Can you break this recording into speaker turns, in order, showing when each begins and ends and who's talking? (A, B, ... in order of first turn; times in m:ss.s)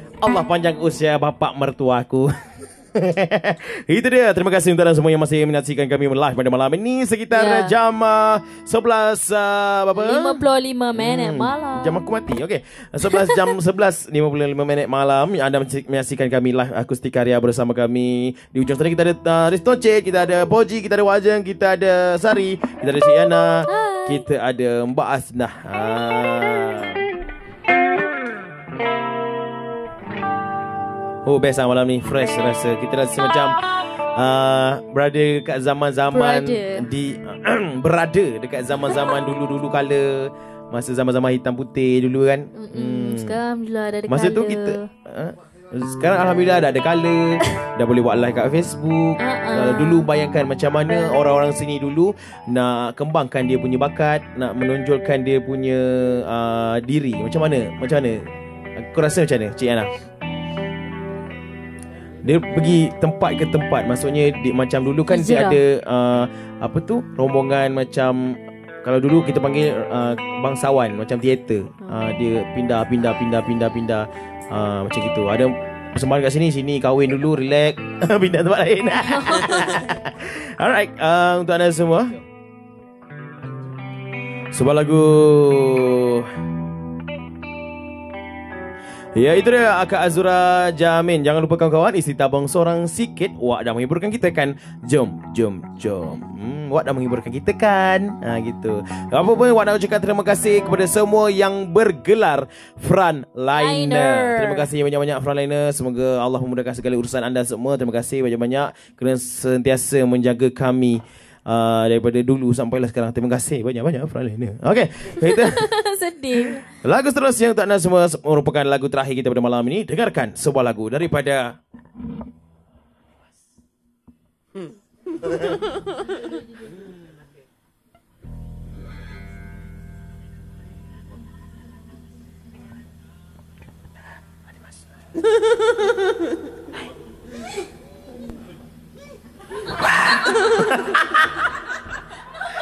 0:00.2-0:02.3 A
0:02.9-0:10.4 A
0:07.3-0:07.8 B
0:09.9-0:12.0 B
0:10.9-0:27.1 A
0:13.1-0:13.4 B
0:23.7-0:24.2 B
0:31.2-0:43.4 A
0:36.1-0:36.9 B
0:42.5-0:44.9 B
0:44.1-0:59.9 A
0:49.2-0:50.0 B
1:02.2-1:22.2 A
1:05.1-1:05.6 B
1:19.1-1:19.5 B
1:24.5-1:26.3 A
1:29.2-1:55.7 A
1:43.5-1:44.7 B
1:55.2-1:56.6 B
1:56.6-2:01.6 A
2:19.7-2:21.4 A